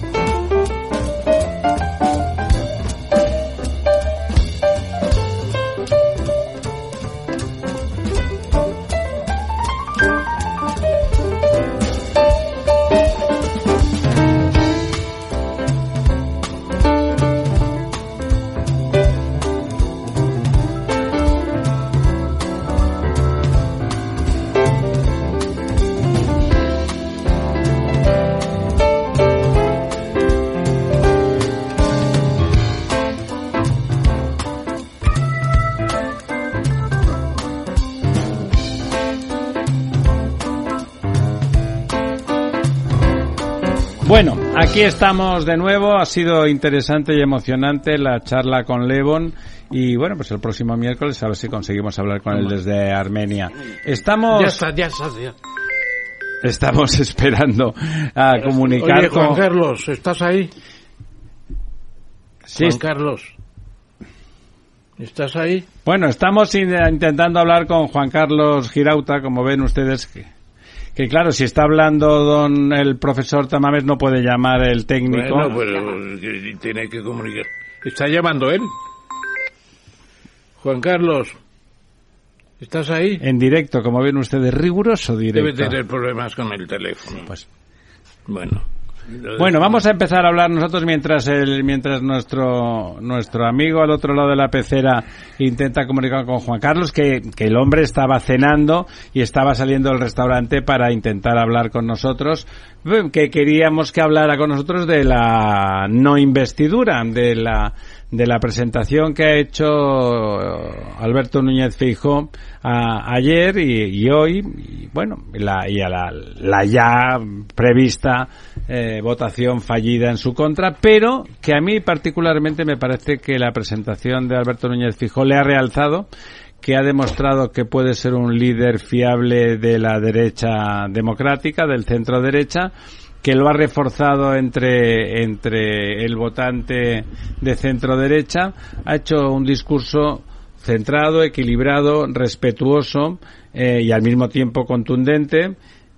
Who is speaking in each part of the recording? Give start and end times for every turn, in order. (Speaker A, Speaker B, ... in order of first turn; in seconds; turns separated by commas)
Speaker A: 44.0-54.6, Speaker B: 54.3-55.3, Speaker A: 56.4-59.4, Speaker B: 58.4-60.5, Speaker A: 62.5-62.8, Speaker B: 62.5-63.3, Speaker B: 65.0-65.7, Speaker A: 65.8-70.3, Speaker A: 71.0-75.5, Speaker B: 75.0-78.7, Speaker B: 80.6-81.4, Speaker B: 82.6-83.2, Speaker A: 83.2-85.8, Speaker B: 85.3-87.3, Speaker B: 88.3-89.8, Speaker A: 89.4-126.1, Speaker A: 126.6-132.7, Speaker A: 133.2-145.6